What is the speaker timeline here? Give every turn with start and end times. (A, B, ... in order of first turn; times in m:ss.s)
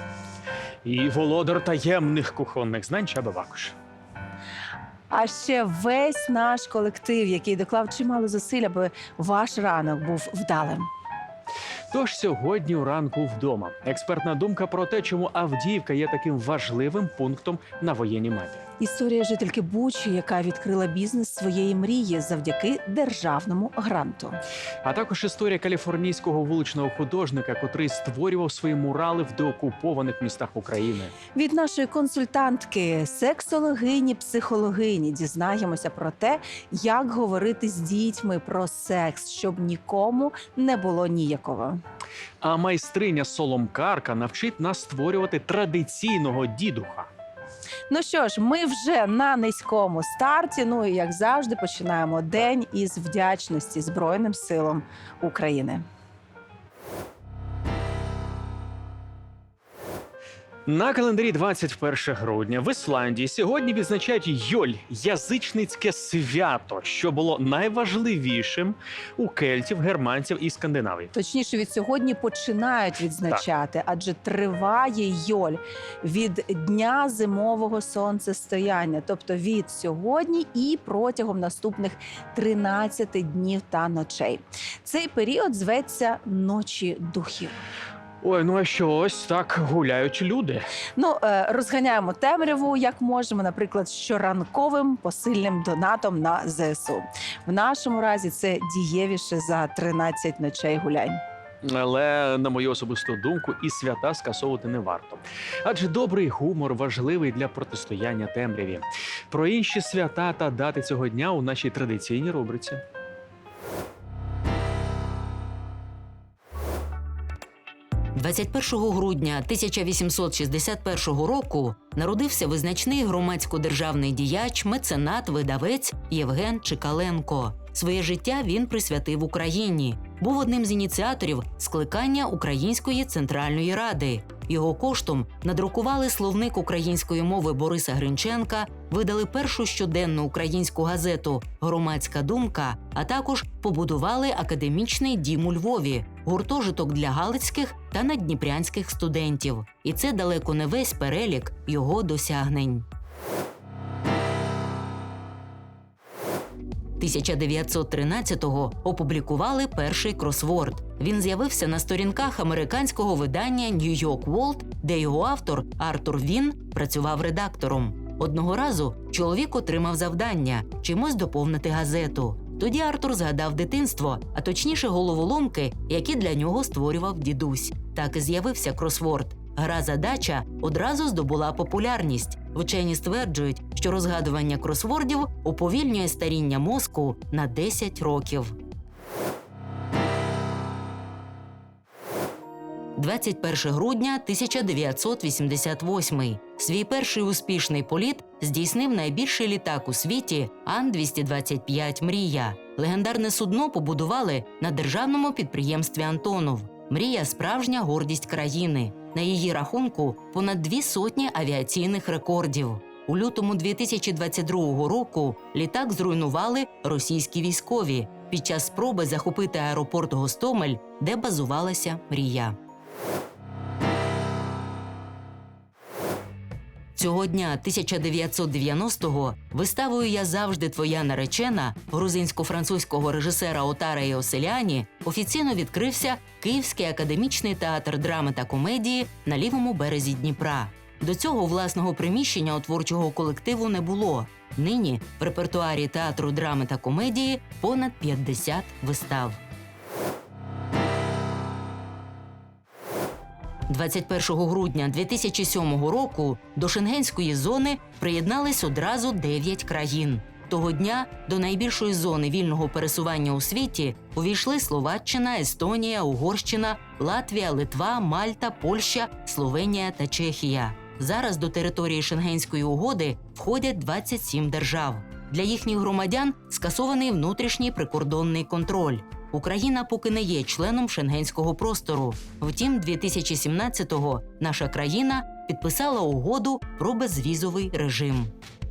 0:00.8-0:03.8 A
0:05.1-0:10.9 B
0:11.9-0:18.6 A
0:18.8-0:24.4 B
0:24.8-0:31.1 A
0:31.4-0:41.8 B
0:42.4-0:47.1 A
0:47.9-0:55.8 B
1:00.7-1:11.1 A
1:11.1-1:27.6 B
1:28.2-1:30.7 A
1:31.0-1:41.2 B
1:41.6-1:52.8 A
1:58.2-2:32.9 C
2:37.0-3:08.6 C
3:13.0-3:42.6 C
3:47.0-4:09.4 C
4:13.7-4:48.3 C